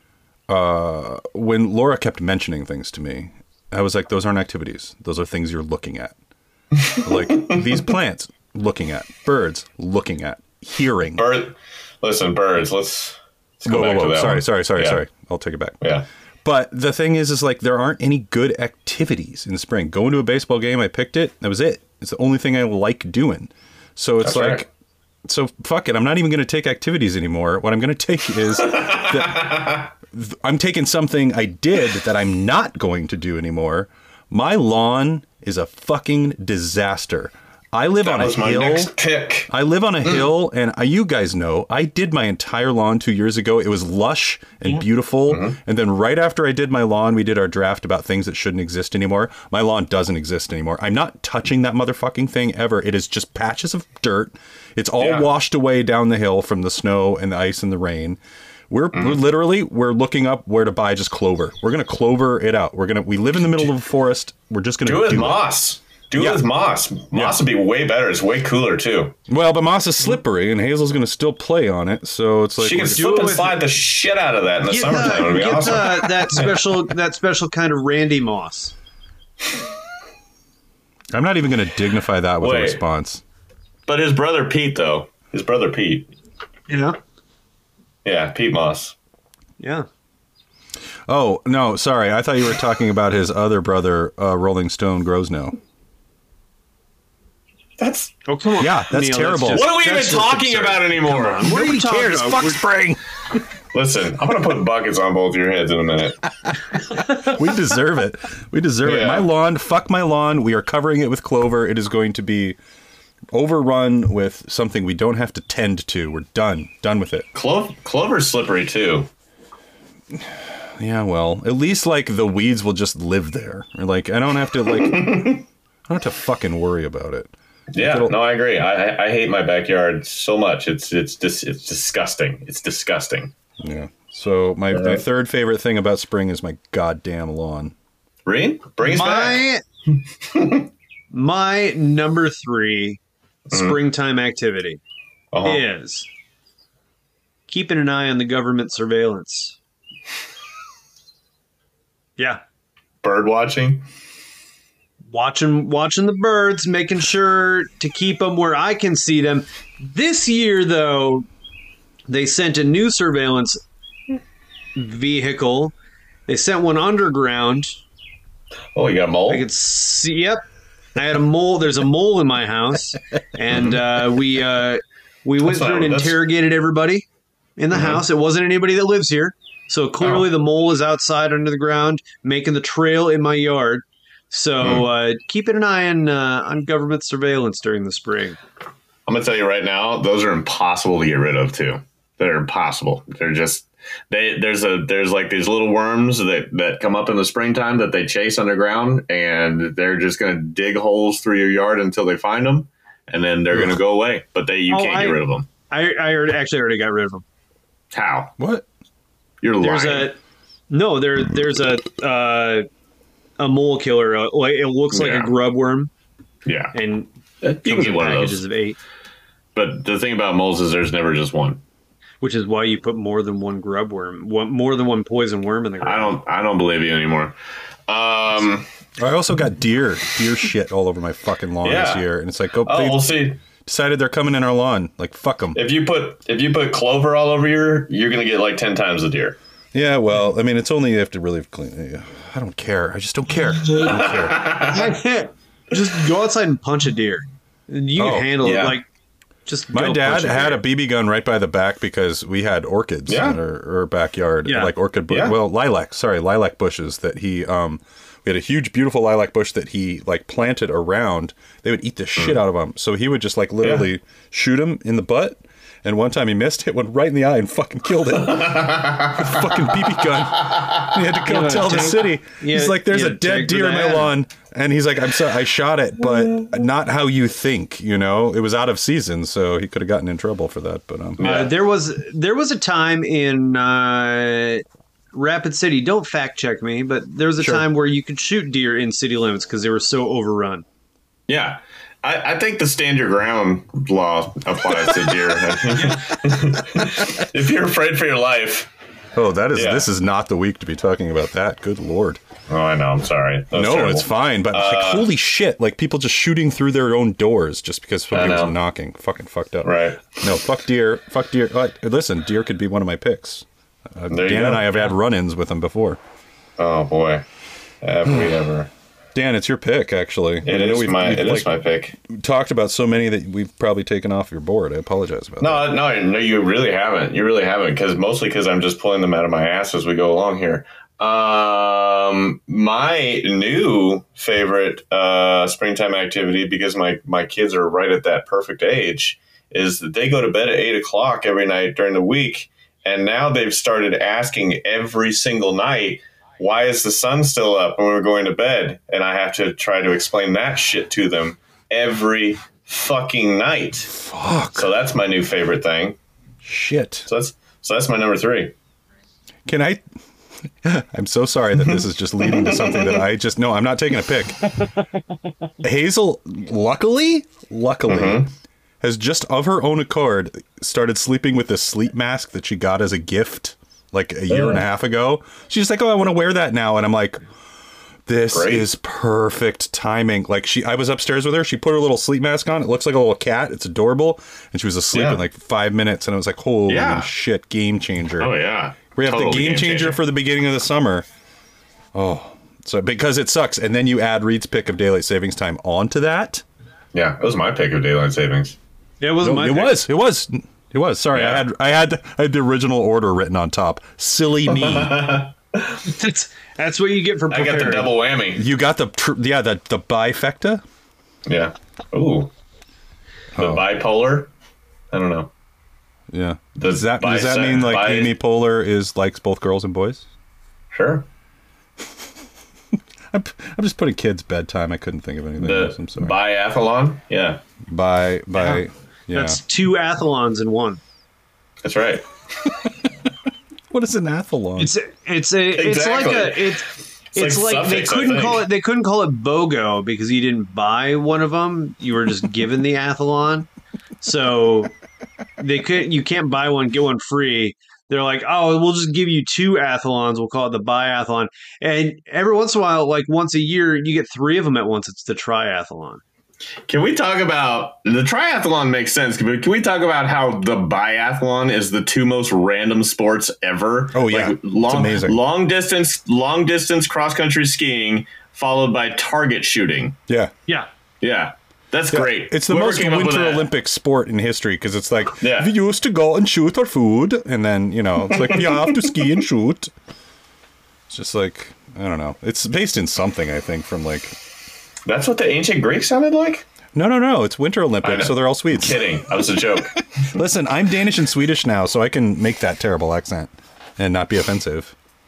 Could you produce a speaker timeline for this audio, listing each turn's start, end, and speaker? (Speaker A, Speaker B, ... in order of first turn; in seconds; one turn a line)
Speaker A: 0.5-6.2
Speaker B: 6.8-7.7
Speaker A: 7.0-11.3
Speaker B: 11.2-15.0
Speaker A: 13.7-15.8
Speaker A: 16.4-24.7
Speaker B: 24.2-24.6
Speaker A: 25.3-38.9
Speaker B: 28.6-29.9
Speaker B: 38.0-39.5
Speaker A: 39.5-58.2
Speaker B: 45.3-45.6
Speaker B: 55.0-55.3
Speaker A: 58.7-65.4
Speaker B: 58.9-59.2
Speaker B: 64.8-69.1
Speaker A: 66.2-66.4
Speaker A: 67.1-67.4
Speaker A: 69.3-73.1
Speaker B: 72.6-76.7
Speaker C: 72.9-73.6
Speaker C: 74.7-78.7
Speaker A: 81.1-83.2
Speaker B: 82.4-82.8
Speaker B: 83.9-86.1
Speaker C: 86.7-87.0
Speaker B: 88.0-88.9
Speaker C: 89.6-89.9
Speaker A: 91.1-95.6
Speaker B: 97.8-98.1
Speaker C: 98.3-102.6
Speaker A: 98.6-99.7
Speaker B: 99.5-101.5
Speaker A: 101.4-103.0
Speaker B: 103.7-106.2
Speaker A: 107.1-112.6
Speaker B: 108.8-109.3
Speaker A: 113.3-117.3
Speaker B: 117.3-119.1
Speaker A: 120.1-128.2
Speaker B: 124.7-125.4
Speaker B: 127.7-133.3
Speaker A: 133.6-137.7
Speaker B: 134.7-135.0
Speaker B: 138.3-139.4
Speaker C: 138.8-139.6
Speaker B: 140.3-140.7
Speaker C: 141.1-143.0
Speaker B: 143.5-143.8
Speaker C: 143.5-144.8
Speaker B: 145.3-145.6
Speaker C: 145.4-146.1
Speaker C: 147.5-149.6
Speaker B: 153.0-153.8
Speaker C: 155.1-161.3
Speaker C: 162.1-163.6
Speaker C: 164.8-165.8
Speaker C: 166.3-167.8
Speaker B: 168.8-169.4
Speaker C: 169.3-170.4
Speaker C: 170.9-177.1
Speaker B: 173.5-173.8
Speaker B: 175.4-176.2
Speaker C: 177.6-188.4
Speaker B: 177.7-178.0
Speaker B: 180.0-180.3
Speaker B: 189.1-205.5
Speaker A: 203.5-203.8
Speaker C: 204.7-207.2
Speaker B: 207.9-208.3
Speaker A: 208.4-208.7
Speaker B: 209.4-210.1
Speaker C: 209.6-210.2
Speaker C: 210.7-212.7
Speaker C: 213.4-215.9
Speaker B: 214.9-215.3
Speaker B: 216.4-216.7
Speaker C: 216.7-218.8
Speaker B: 217.4-218.4
Speaker B: 219.6-221.6
Speaker C: 222.2-226.2
Speaker B: 225.8-227.4
Speaker B: 227.9-228.7
Speaker A: 229.0-233.1
Speaker B: 231.6-232.1
Speaker B: 232.6-233.4
Speaker A: 233.6-235.6
Speaker B: 235.6-239.4
Speaker A: 239.7-244.5
Speaker B: 243.8-245.0
Speaker C: 244.4-248.8
Speaker A: 248.0-248.4
Speaker B: 248.4-248.8
Speaker C: 249.4-250.6
Speaker A: 249.7-281.2
Speaker B: 253.1-253.4
Speaker C: 254.4-254.7
Speaker B: 255.1-255.4
Speaker B: 263.6-263.9
Speaker B: 268.3-269.4
Speaker B: 270.5-270.9
Speaker C: 271.2-274.1
Speaker B: 281.2-281.6
Speaker C: 281.2-290.6
Speaker A: 287.4-287.6
Speaker B: 291.3-298.7
Speaker A: 299.1-302.2
Speaker B: 299.6-299.9
Speaker B: 302.5-305.1
Speaker A: 303.5-316.0
Speaker B: 308.1-308.5
Speaker B: 309.6-310.2
Speaker B: 314.1-314.9
Speaker B: 316.6-317.2
Speaker B: 317.8-318.7
Speaker A: 319.1-321.5
Speaker B: 320.4-322.0
Speaker A: 322.1-325.7
Speaker B: 325.4-354.0
Speaker A: 353.9-354.7
Speaker B: 354.6-356.0
Speaker A: 356.4-357.1
Speaker B: 357.1-358.5
Speaker A: 359.4-359.8
Speaker A: 360.6-364.5
Speaker B: 361.8-363.1
Speaker A: 365.6-368.3
Speaker B: 367.9-368.3
Speaker A: 368.8-377.2
Speaker B: 374.3-374.6
Speaker A: 378.1-388.4
Speaker B: 378.3-378.7
Speaker B: 384.9-385.2
Speaker B: 386.7-387.1
Speaker B: 388.2-390.0
Speaker A: 388.9-391.1
Speaker A: 391.9-396.4
Speaker B: 396.9-398.6
Speaker C: 399.0-399.9
Speaker A: 399.2-405.1
Speaker B: 401.1-401.4
Speaker B: 404.5-405.8
Speaker C: 405.9-407.9
Speaker B: 407.3-408.4
Speaker A: 408.4-410.6
Speaker B: 411.3-412.3
Speaker A: 413.4-413.6
Speaker B: 413.4-414.3
Speaker B: 414.9-415.3
Speaker A: 416.1-420.1
Speaker B: 416.6-418.1
Speaker B: 420.7-421.1
Speaker A: 423.1-426.1
Speaker B: 425.4-427.4
Speaker A: 427.7-429.4
Speaker C: 429.1-430.8
Speaker B: 431.6-432.5
Speaker A: 433.7-434.7
Speaker C: 434.6-443.5
Speaker B: 435.6-436.6
Speaker B: 437.1-438.4
Speaker C: 444.0-444.7
Speaker C: 445.4-456.0
Speaker B: 456.7-469.9
Speaker A: 463.9-465.2
Speaker A: 470.1-470.3
Speaker B: 471.0-473.5
Speaker A: 471.9-479.7
Speaker B: 475.2-475.5
Speaker B: 478.1-478.8
Speaker A: 480.9-484.1
Speaker B: 484.9-486.5
Speaker A: 486.7-489.2
Speaker B: 487.8-490.2
Speaker A: 490.1-494.7